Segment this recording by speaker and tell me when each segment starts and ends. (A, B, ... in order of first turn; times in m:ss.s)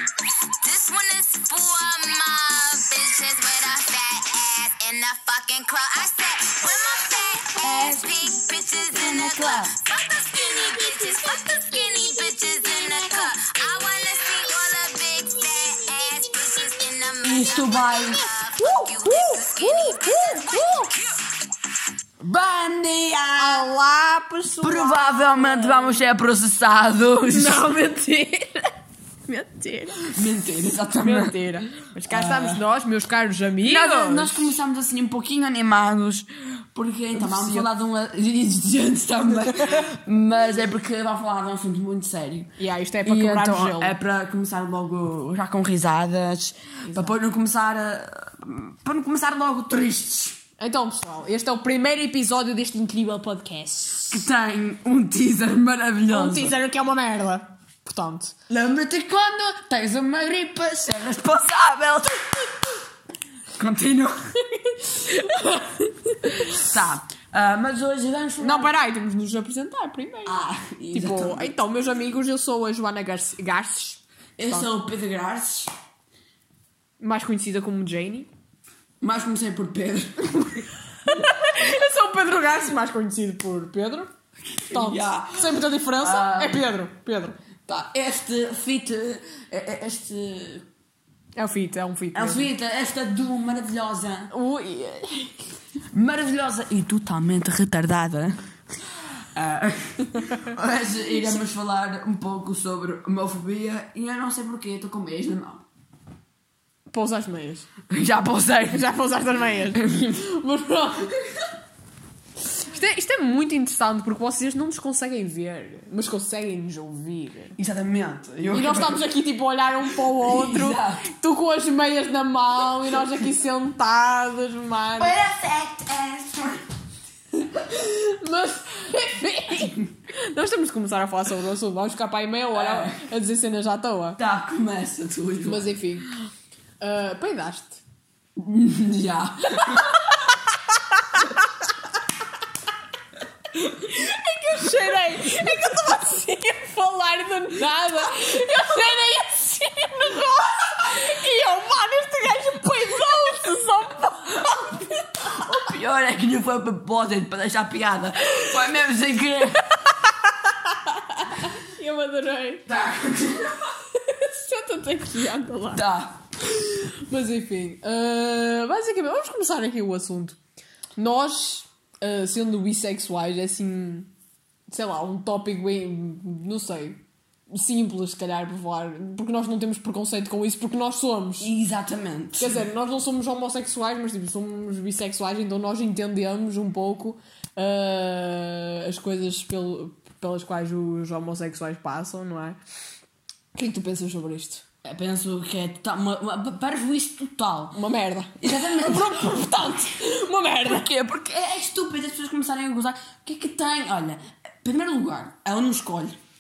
0:00.6-0:20.9 A
0:07.6-0:09.7 B
0:17.2-0:18.2 B
0:18.6-0:20.9 C
0:22.2-0:23.7 B
0:23.4-0:26.0 C
0:24.6-0:27.7 B
0:27.3-0:28.7 C
0:29.3-0:30.2 C
0:30.1-0:32.6 B
0:30.9-0:34.6 C
0:33.6-0:42.5 B
0:37.1-0:37.7 C
0:42.6-0:44.0 C
0:43.0-0:50.4 B
0:46.8-0:47.2 C
0:50.6-0:54.2 C
0:54.1-0:56.6 B
0:56.1-0:58.4 C
0:58.5-1:02.5 B
1:03.6-1:04.2 B
1:04.6-1:06.7 C
1:06.6-1:08.7 B
1:08.4-1:14.7 C
1:10.3-1:11.6 B
1:14.4-1:15.7 B
1:17.0-1:18.3 C
1:19.0-1:20.7 B
1:21.0-1:24.1 C
1:24.6-1:26.7 B
1:24.7-1:27.4 C
1:27.7-1:30.6 B
1:31.4-1:32.5 C
1:32.1-1:34.3 B
1:34.3-1:35.4 C
1:35.9-1:38.4 B
1:39.3-1:45.6 B
1:40.2-1:40.5 C
1:46.9-1:47.7 C
1:47.9-1:48.9 B
1:48.6-1:51.2 C
1:49.6-1:50.2 B
1:52.5-1:57.6 C
1:57.6-1:59.0 B
1:58.5-2:05.2 C
1:59.9-2:01.1 B
2:05.0-2:06.7 B
2:07.6-2:14.2 C
2:12.5-2:13.1 B
2:14.2-2:15.7 B
2:15.4-2:16.2 C
2:16.8-2:17.8 C
2:18.4-2:20.0 B
2:19.6-2:21.5 C
2:23.7-2:35.6 C
2:35.3-2:39.6 B
2:39.8-2:42.7 C
2:42.7-2:43.6 B
2:43.9-2:45.8 C
2:45.7-2:46.2 B
2:46.4-2:50.4 C
2:51.0-2:54.1 C
2:54.7-3:01.5 C
3:01.4-3:02.7 B
3:02.4-3:12.6 C
3:13.6-3:14.6 C
3:14.8-3:17.8 B
3:17.7-3:20.9 C
3:18.4-3:19.7 B
3:20.6-3:26.2 B